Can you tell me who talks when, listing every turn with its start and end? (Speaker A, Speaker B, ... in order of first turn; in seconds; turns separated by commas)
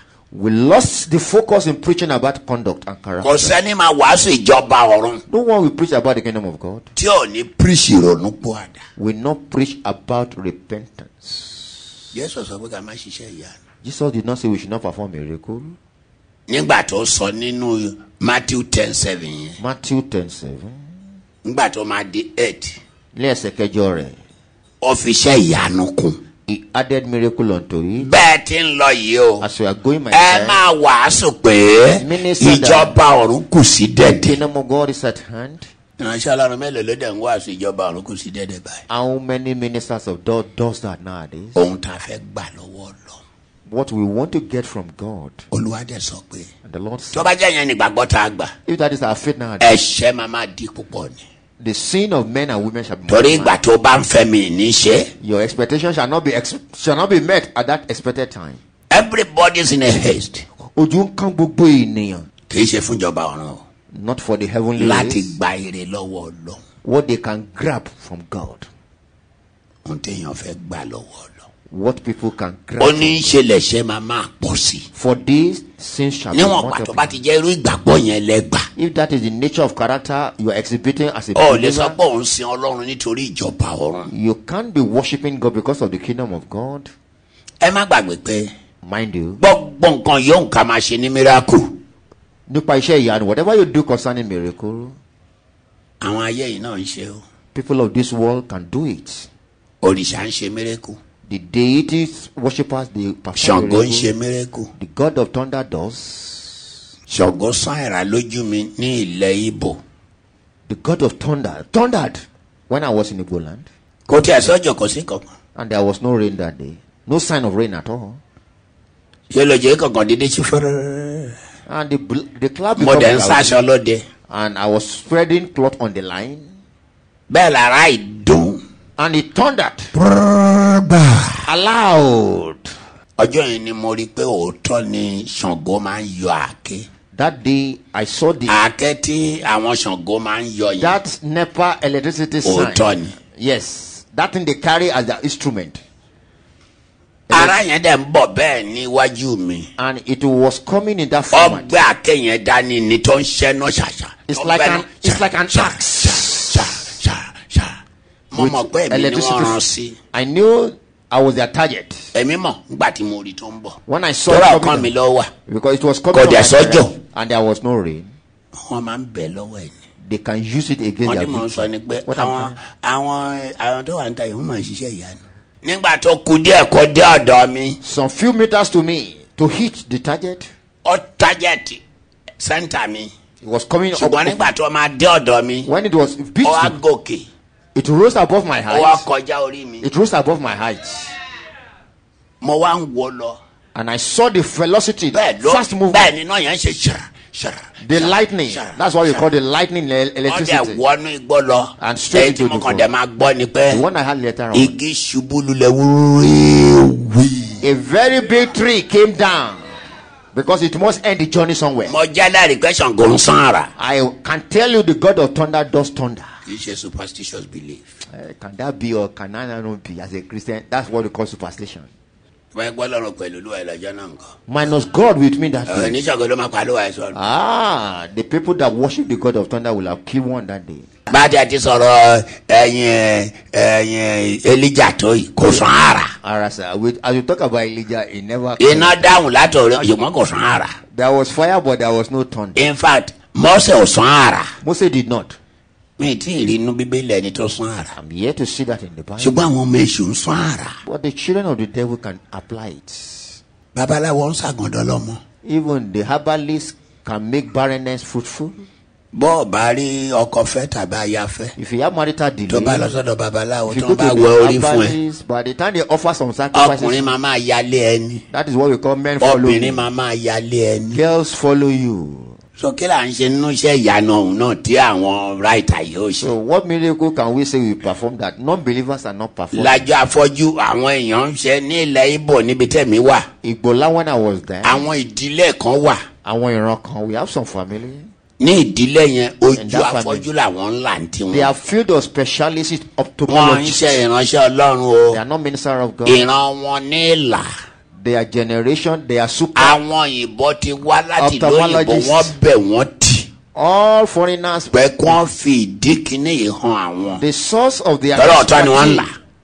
Speaker A: 0.3-3.6, Speaker B: 3.2-5.2, Speaker A: 5.3-6.9, Speaker B: 7.0-8.8, Speaker A: 9.0-11.9, Speaker B: 12.1-13.5, Speaker A: 13.8-15.7, Speaker B: 16.5-19.6, Speaker A: 19.6-20.9, Speaker B: 21.4-22.8, Speaker A: 23.1-24.2, Speaker B: 24.8-26.2, Speaker A: 26.5-28.1, Speaker B: 28.0-29.4, Speaker A: 29.4-30.6, Speaker B: 30.1-34.4, Speaker A: 32.0-33.0, Speaker A: 34.0-35.7, Speaker B: 36.0-38.8, Speaker A: 38.9-41.7, Speaker B: 41.5-43.2, Speaker A: 43.7-45.5, Speaker B: 45.5-46.5, Speaker A: 46.6-47.3, Speaker B: 47.1-48.5, Speaker A: 48.6-49.8, Speaker B: 49.6-51.2, Speaker A: 51.6-53.6, Speaker B: 53.1-55.1, Speaker A: 55.2-58.6, Speaker B: 58.9-60.4, Speaker A: 60.7-62.3, Speaker B: 62.5-63.6, Speaker A: 63.9-65.3, Speaker B: 64.8-66.6, Speaker A: 66.8-68.7, Speaker B: 69.8-71.4, Speaker A: 71.7-73.4, Speaker B: 72.8-74.9, Speaker A: 74.9-77.2, Speaker B: 76.3-78.7, Speaker A: 78.8-82.0, Speaker B: 81.3-84.1, Speaker A: 84.1-86.9, Speaker B: 87.6-88.5, Speaker A: 88.8-89.4, Speaker B: 89.4-91.8, Speaker A: 92.5-95.0, Speaker B: 96.0-97.2, Speaker A: 97.5-99.3, Speaker B: 99.8-101.0, Speaker A: 101.2-104.1, Speaker B: 103.3-104.7, Speaker A: 104.8-106.7, Speaker B: 107.1-109.8, Speaker A: 110.7-113.7, Speaker B: 114.1-115.3, Speaker A: 115.5-118.2, Speaker B: 119.3-121.3, Speaker A: 121.7-123.6, Speaker B: 122.8-124.0, Speaker A: 124.3-126.5, Speaker B: 127.3-128.6, Speaker A: 129.0-129.9, Speaker B: 129.9-131.4, Speaker A: 131.4-132.7, Speaker B: 133.2-136.8, Speaker A: 137.1-138.6, Speaker B: 138.5-141.0, Speaker A: 140.8-145.8, Speaker B: 142.4-143.1, Speaker A: 147.3-147.6, Speaker B: 147.3-149.7, Speaker A: 149.8-151.8, Speaker B: 151.3-157.8, Speaker A: 154.3-156.8, Speaker B: 158.3-160.0, Speaker A: 158.3-159.6, Speaker A: 160.1-162.1, Speaker B: 162.1-165.3, Speaker A: 163.8-164.9, Speaker A: 165.5-168.1, Speaker B: 166.1-166.9, Speaker B: 168.6-169.7, Speaker A: 170.0-172.6, Speaker B: 171.0-177.8, Speaker A: 177.8-180.5, Speaker B: 180.8-181.8, Speaker B: 182.4-183.1, Speaker A: 183.4-184.5, Speaker B: 183.9-185.7, Speaker A: 185.6-186.8, Speaker B: 186.4-187.3, Speaker A: 187.7-189.1, Speaker B: 188.7-189.9, Speaker A: 189.8-191.1, Speaker B: 192.4-193.4, Speaker A: 193.7-196.1, Speaker B: 195.1-199.2, Speaker A: 197.8-200.8, Speaker B: 200.2-203.8, Speaker A: 201.8-202.9, Speaker A: 203.7-204.8, Speaker B: 204.5-207.6, Speaker A: 207.6-209.8, Speaker A: 210.3-212.0, Speaker B: 211.8-213.7, Speaker A: 213.8-216.4, Speaker B: 216.4-217.8, Speaker A: 218.1-221.9, Speaker B: 222.5-224.3, Speaker A: 224.5-226.0, Speaker B: 225.7-227.2, Speaker A: 227.1-230.9, Speaker B: 231.1-236.1, Speaker A: 235.4-235.7, Speaker A: 236.2-239.2, Speaker B: 238.6-240.8, Speaker A: 240.9-242.7, Speaker B: 242.6-244.5, Speaker A: 244.6-245.4, Speaker B: 246.0-247.9, Speaker A: 247.9-249.5, Speaker B: 249.2-250.8, Speaker A: 250.8-253.4, Speaker B: 253.7-255.2, Speaker A: 255.4-258.6, Speaker B: 259.1-261.5, Speaker A: 261.6-263.0, Speaker B: 262.5-265.0, Speaker A: 263.7-267.1, Speaker B: 266.5-268.2, Speaker A: 268.3-269.9, Speaker B: 269.2-271.0, Speaker A: 270.9-272.4, Speaker B: 272.6-276.3, Speaker A: 276.2-279.9, Speaker B: 279.5-283.3, Speaker A: 283.4-284.9, Speaker B: 284.6-286.0, Speaker A: 286.2-288.1, Speaker B: 288.4-291.5, Speaker A: 289.5-290.3, Speaker A: 291.3-294.0, Speaker B: 293.3-295.2, Speaker A: 295.1-296.3, Speaker B: 296.0-297.5, Speaker A: 297.9-299.8, Speaker B: 299.5-303.3, Speaker A: 301.2-302.4, Speaker A: 303.5-305.2, Speaker B: 304.7-307.2, Speaker A: 307.1-309.1, Speaker B: 308.1-309.1